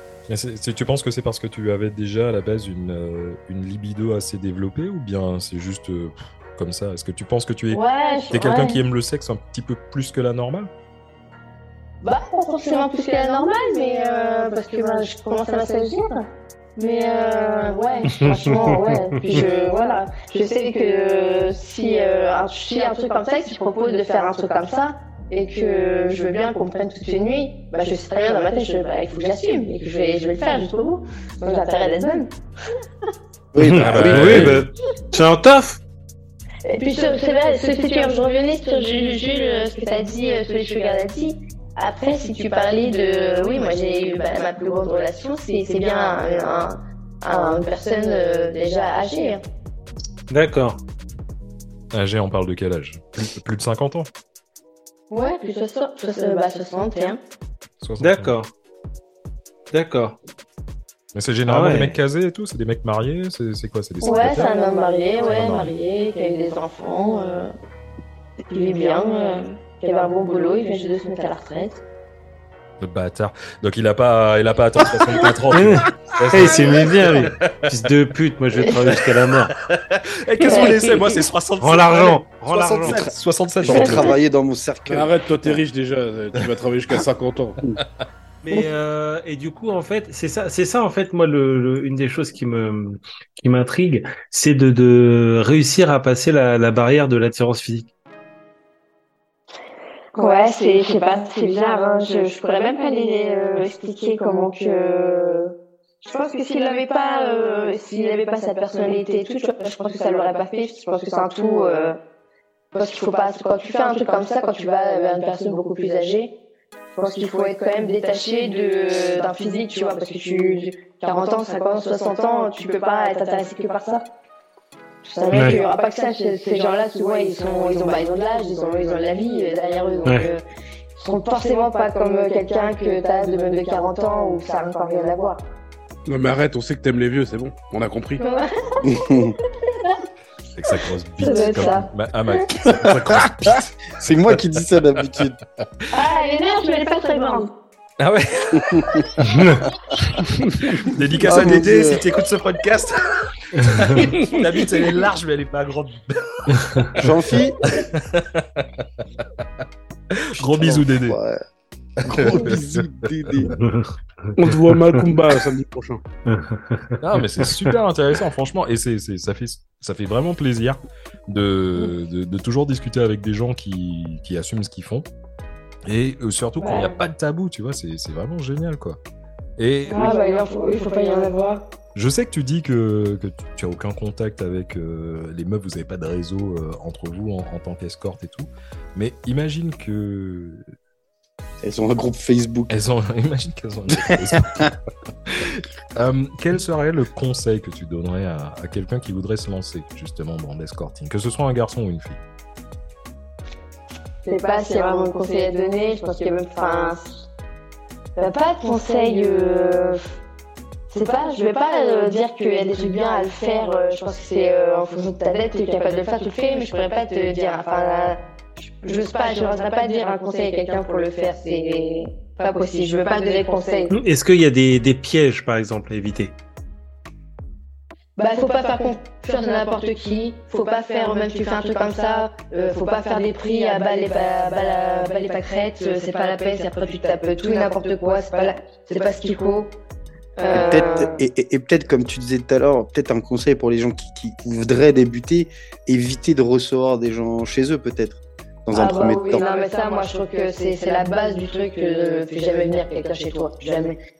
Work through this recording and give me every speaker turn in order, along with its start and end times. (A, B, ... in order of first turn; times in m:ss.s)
0:00.3-0:10.7 A
0:07.7-0:08.8 B
0:12.0-0:16.2 B
0:16.8-0:32.3 B
0:18.1-0:19.4 C
0:33.5-0:34.6 D
0:33.6-0:35.8 C
0:33.7-0:34.5 E
0:33.8-0:34.6 A
0:36.6-0:49.4 B
0:50.3-0:50.8 C
0:51.9-0:54.1 A
0:55.1-0:57.2 B
0:57.8-0:58.3 A
0:58.0-0:58.5 C
0:59.7-1:00.2 C
1:01.1-1:04.5 A
1:01.4-1:02.0 C
1:04.0-1:07.5 B
1:05.2-1:05.7 A
1:08.5-1:11.8 B
1:12.8-1:17.6 A
1:15.5-1:19.5 C
1:18.9-1:24.1 A
1:20.4-1:20.8 B
1:21.6-1:23.0 C
1:22.8-1:25.6 D
1:24.9-1:27.6 E
1:28.4-1:37.9 C
1:40.1-1:52.0 B
1:52.7-1:56.4 B
1:56.9-2:04.0 B
2:05.0-2:10.4 B
2:05.3-2:05.6 C
2:11.0-2:15.4 B
2:16.0-2:18.2 E
2:18.2-2:20.0 B
2:18.8-2:19.4 D
2:20.6-2:23.9 A
2:21.2-2:22.5 B
2:22.7-2:25.4 D
2:25.9-2:27.5 B
2:28.0-2:29.5 A
2:28.5-2:29.1 D
2:29.2-2:29.6 C
2:30.1-2:39.4 A
2:31.2-2:32.0 D
2:36.9-2:37.6 D
2:40.1-2:41.2 A
2:40.3-2:41.4 D
2:42.0-2:42.9 A
2:42.0-2:43.5 D
2:43.6-2:44.3 C
2:44.4-2:46.0 E
2:46.2-2:47.7 C
2:47.0-2:55.1 A
2:55.8-2:59.0 A
2:56.6-2:57.0 B
2:59.6-3:00.2 A
2:59.9-3:01.6 B
3:01.9-3:10.6 A
3:11.6-3:12.8 D
3:12.7-3:22.2 A
3:13.9-3:14.7 D
3:24.2-3:27.2 B
3:28.2-3:30.1 B
3:30.9-3:43.9 B
3:43.9-3:46.3 C
3:48.2-3:59.7 B
4:00.4-4:01.2 B
4:00.5-4:09.4 D
4:08.7-4:14.0 B